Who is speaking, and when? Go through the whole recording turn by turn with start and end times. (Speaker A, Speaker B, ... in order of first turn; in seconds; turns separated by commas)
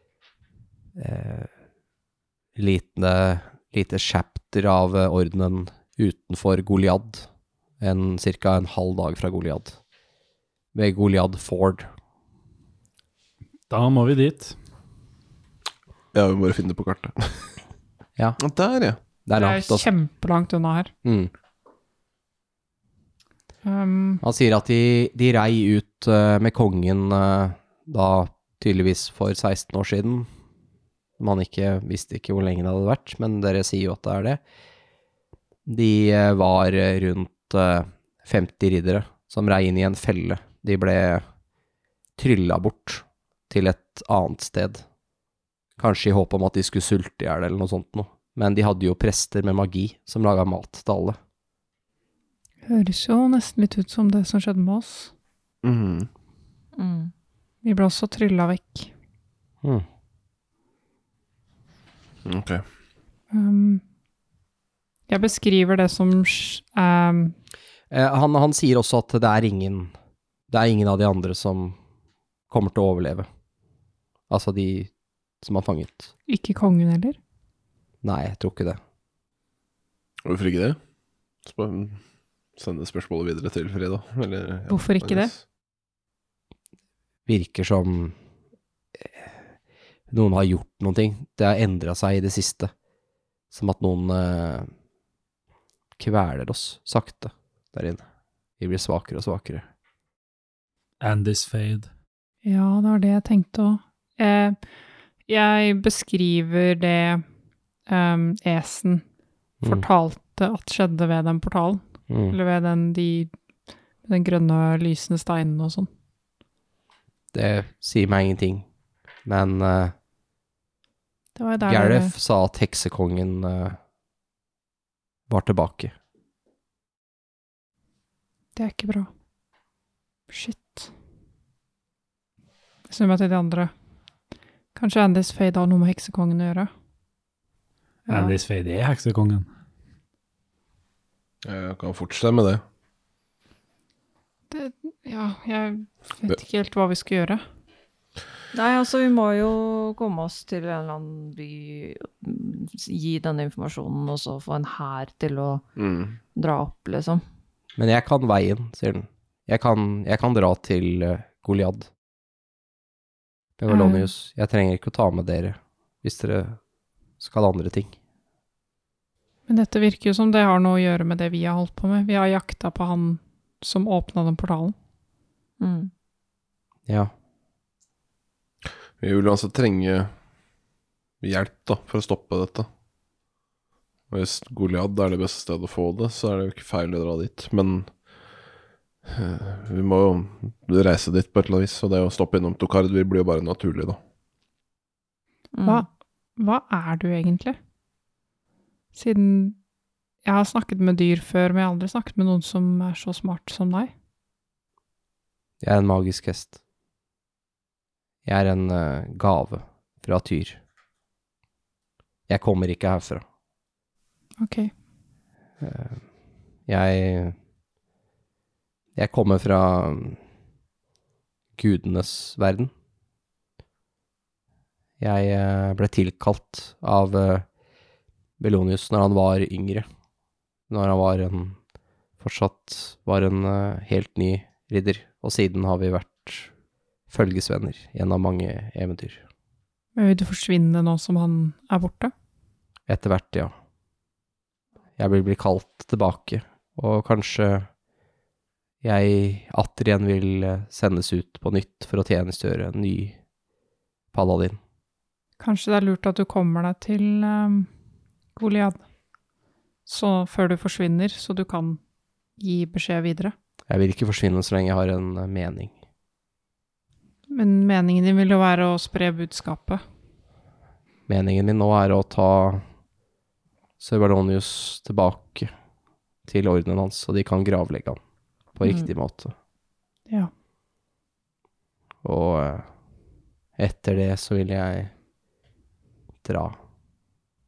Speaker A: 1.0-1.5, Speaker A: 2.6-7.3, Speaker A: 7.8-9.8, Speaker A: 10.8-11.9, Speaker B: 13.7-14.5, Speaker C: 16.1-17.6, Speaker C: 18.4-19.0, Speaker A: 19.3-19.9, Speaker D: 19.3-20.9, Speaker A: 21.1-21.3, Speaker D: 23.6-24.2, Speaker A: 24.2-30.3, Speaker A: 31.2-34.4, Speaker A: 35.7-41.2, Speaker A: 42.2-44.8, Speaker A: 45.8-51.2, Speaker D: 52.7-55.1, Speaker C: 55.6-56.1, Speaker E: 56.8-57.1, Speaker D: 57.6-58.9, Speaker C: 62.2-62.6, Speaker D: 63.3-63.8, Speaker D: 65.1-67.3, Speaker A: 67.9-69.9, Speaker A: 70.5-71.8, Speaker A: 72.5-73.3, Speaker A: 74.3-74.9, Speaker A: 75.4-76.1, Speaker D: 76.3-77.2, Speaker A: 78.0-78.8, Speaker C: 80.2-80.8, Speaker C: 81.5-82.0, Speaker C: 82.6-85.4, Speaker D: 84.7-85.3, Speaker A: 87.3-88.2, Speaker A: 90.1-92.7, Speaker A: 93.5-94.7, Speaker A: 96.0-98.0, Speaker A: 98.6-99.7, Speaker B: 101.0-101.9, Speaker D: 102.5-104.6, Speaker D: 105.3-107.2, Speaker D: 107.9-109.0, Speaker D: 109.7-113.3, Speaker A: 112.1-112.4, Speaker D: 114.0-115.9, Speaker A: 117.3-118.7, Speaker A: 119.3-119.9, Speaker D: 121.4-122.1, Speaker A: 121.6-123.8, Speaker A: 125.3-125.9, Speaker D: 128.6-129.1, Speaker D: 130.3-130.9, Speaker D: 132.9-133.7, Speaker D: 134.8-136.7, Speaker D: 138.1-138.4, Speaker B: 138.1-139.5, Speaker C: 141.4-142.6, Speaker D: 144.5-147.4, Speaker E: 148.5-155.6, Speaker C: 155.8-156.2, Speaker E: 156.3-157.2, Speaker A: 157.8-161.9, Speaker A: 163.6-166.6, Speaker D: 163.7-164.1, Speaker A: 167.2-167.9, Speaker D: 169.5-174.8, Speaker E: 175.6-175.9, Speaker C: 179.0-180.1, Speaker C: 181.2-182.7, Speaker C: 184.1-187.9, Speaker C: 189.1-194.0, Speaker E: 195.5-195.8, Speaker D: 195.6-197.6, Speaker D: 198.9-199.6, Speaker D: 200.2-203.9, Speaker A: 205.6-206.6, Speaker A: 208.2-210.6, Speaker A: 212.3-213.2, Speaker D: 214.4-214.7, Speaker A: 215.6-216.0, Speaker A: 216.7-217.3, Speaker A: 218.9-220.2, Speaker A: 221.6-222.7, Speaker A: 225.0-227.5, Speaker A: 228.4-229.9, Speaker A: 230.7-231.6, Speaker A: 232.2-236.5, Speaker A: 237.1-239.2, Speaker D: 240.0-242.1, Speaker A: 242.9-243.5, Speaker A: 245.0-247.7, Speaker A: 248.8-253.2, Speaker A: 254.1-254.6, Speaker D: 255.4-257.7, Speaker D: 258.4-258.8, Speaker D: 259.9-261.8, Speaker D: 262.4-263.3, Speaker A: 263.7-265.7, Speaker D: 267.3-269.8, Speaker A: 271.1-272.6, Speaker A: 273.8-275.5, Speaker A: 276.3-278.0, Speaker A: 278.6-279.3, Speaker A: 282.0-282.7, Speaker A: 283.6-284.9, Speaker A: 286.2-286.6